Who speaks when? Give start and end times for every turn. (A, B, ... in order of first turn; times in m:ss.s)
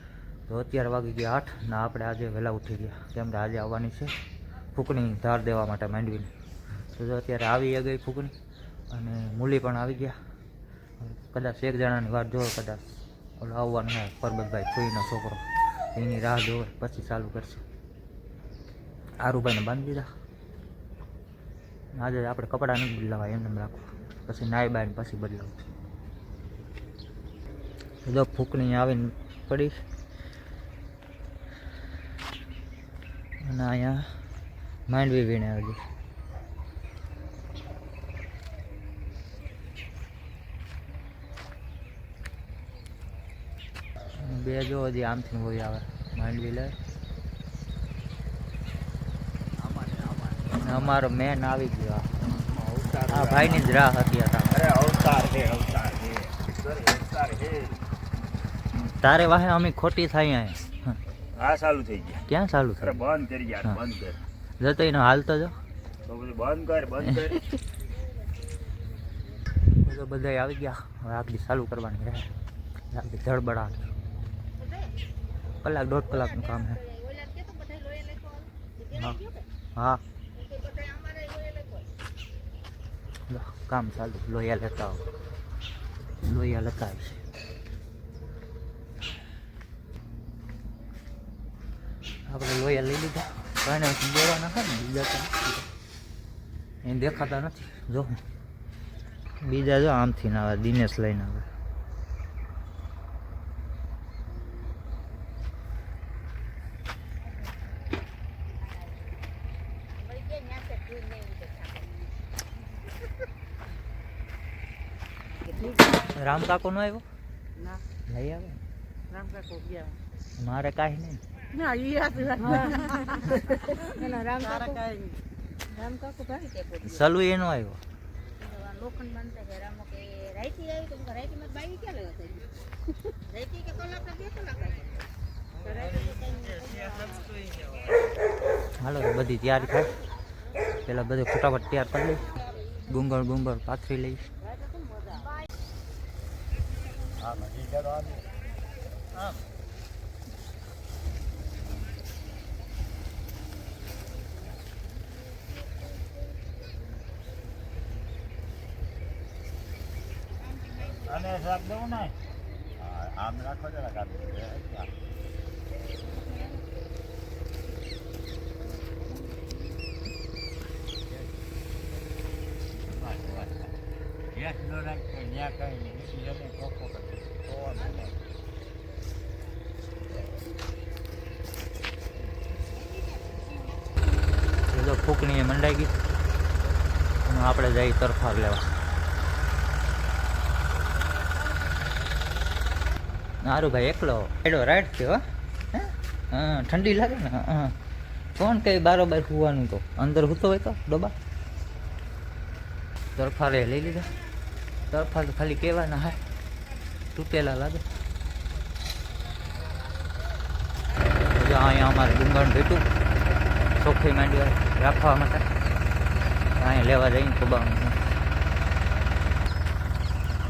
0:00.5-0:04.1 A
0:04.7-0:06.3 A
0:07.0-0:08.3 A
0:08.9-0:10.2 A
0:11.0-0:17.6 A
0:19.2-0:20.1 A
0:22.0-0:25.6 A
0:28.0-0:29.8 A
0:33.4-0:34.1 A
0:34.9-0:35.8 A
0:44.2-0:46.8 A
0:49.6-0:50.5 B
0:50.5-0:52.5 A
0:52.5-0:53.5 B
0:53.1-0:54.6 A
0:54.6-0:57.8 B
0:58.8-1:01.0 A
1:01.4-1:02.2 B
1:02.2-1:03.0 A
1:03.0-1:04.2 B
1:04.6-1:05.6 A
1:06.1-1:07.4 B
1:07.1-1:07.4 A
1:09.8-1:12.3 A
1:12.9-1:13.9 A
1:14.6-1:14.9 C
1:15.6-1:16.8 A
1:16.2-1:19.5 C
1:19.0-1:19.2 A
1:19.8-1:20.0 A
1:20.3-1:21.9 C
1:23.3-1:25.1 A
1:26.2-1:27.2 A
1:32.3-1:35.7 A
1:36.8-1:38.2 A
1:39.4-1:41.5 A
1:49.9-1:52.0 C
1:55.5-1:55.8 C
1:56.1-1:57.0 A
1:58.1-1:58.6 A
1:59.1-1:59.8 D
2:00.4-2:01.2 A
2:01.6-2:03.3 D
2:01.6-2:05.0 C
2:04.4-2:05.0 D
2:05.7-2:07.0 C
2:06.8-2:07.8 A
2:08.4-2:14.9 C
2:15.6-2:17.4 C
2:18.8-2:20.0 A
2:20.9-2:24.3 A
2:27.2-2:28.2 B
2:41.0-2:42.2 B
2:42.8-2:44.9 B
2:53.0-2:53.6 B
2:54.4-2:58.0 B
3:04.6-3:06.0 A
3:07.2-3:08.7 A
3:13.4-3:17.8 A
3:18.4-3:21.2 A
3:23.2-3:24.1 A
3:24.9-3:26.2 A
3:27.2-3:27.8 A
3:31.2-3:32.9 A
3:33.7-3:35.5 A
3:36.6-3:38.0 A